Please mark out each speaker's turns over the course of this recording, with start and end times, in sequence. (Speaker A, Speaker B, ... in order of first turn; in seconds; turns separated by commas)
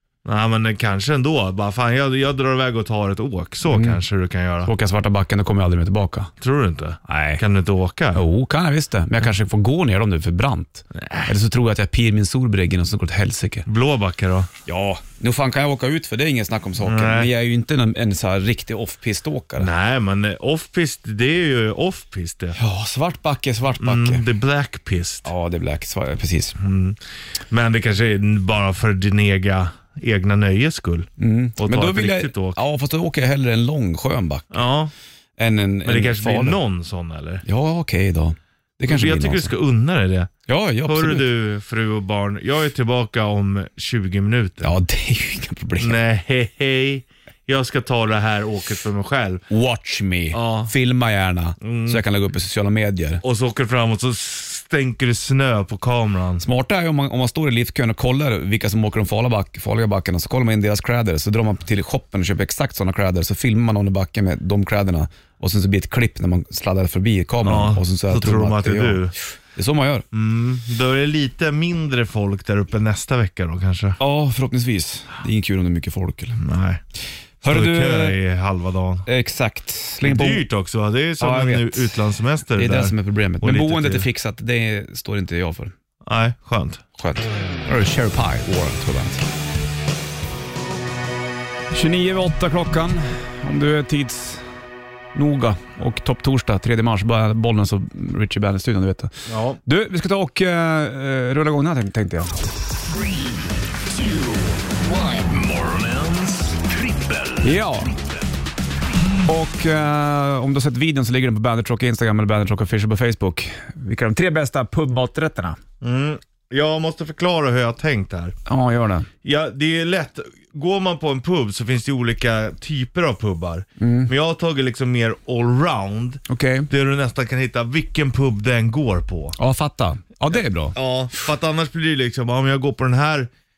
Speaker A: 0.2-4.7, Speaker B: 3.7-4.0, Speaker B: 4.6-6.3, Speaker A: 6.4-8.2, Speaker B: 7.1-7.4, Speaker B: 8.1-13.7, Speaker A: 10.9-11.3, Speaker A: 13.7-14.5, Speaker B: 14.7-19.7, Speaker A: 16.8-17.3, Speaker A: 19.6-22.6, Speaker B: 22.5-24.2, Speaker A: 23.8-25.3, Speaker B: 25.2-26.6, Speaker A: 26.6-27.0, Speaker A: 27.5-32.6, Speaker B: 31.2-34.6, Speaker A: 34.5-34.9, Speaker B: 35.4-36.6, Speaker A: 35.8-37.4, Speaker B: 37.4-39.5, Speaker A: 38.9-40.3, Speaker B: 40.5-41.3, Speaker A: 40.9-44.7, Speaker B: 44.6-46.0, Speaker A: 45.8-49.4, Speaker B: 49.5-53.2, Speaker A: 50.3-50.7, Speaker A: 51.6-52.0, Speaker A: 53.2-56.4, Speaker B: 56.4-70.0, Speaker A: 67.4-69.1, Speaker A: 70.1-74.0, Speaker B: 74.0-76.4, Speaker A: 76.4-76.8, Speaker B: 77.4-78.2, Speaker A: 77.5-79.1, Speaker B: 79.0-80.4, Speaker A: 80.0-84.1, Speaker B: 81.2-82.0, Speaker B: 82.5-85.7, Speaker A: 86.0-86.8, Speaker B: 87.0-89.2, Speaker B: 91.7-94.4, Speaker B: 95.1-102.5, Speaker A: 99.3-99.6, Speaker C: 103.9-108.1, Speaker B: 107.4-107.9, Speaker B: 109.2-115.6, Speaker A: 115.8-118.3, Speaker B: 118.5-119.1, Speaker A: 119.2-129.3, Speaker B: 123.8-124.1, Speaker B: 126.3-126.7, Speaker B: 129.4-130.8, Speaker A: 130.7-133.3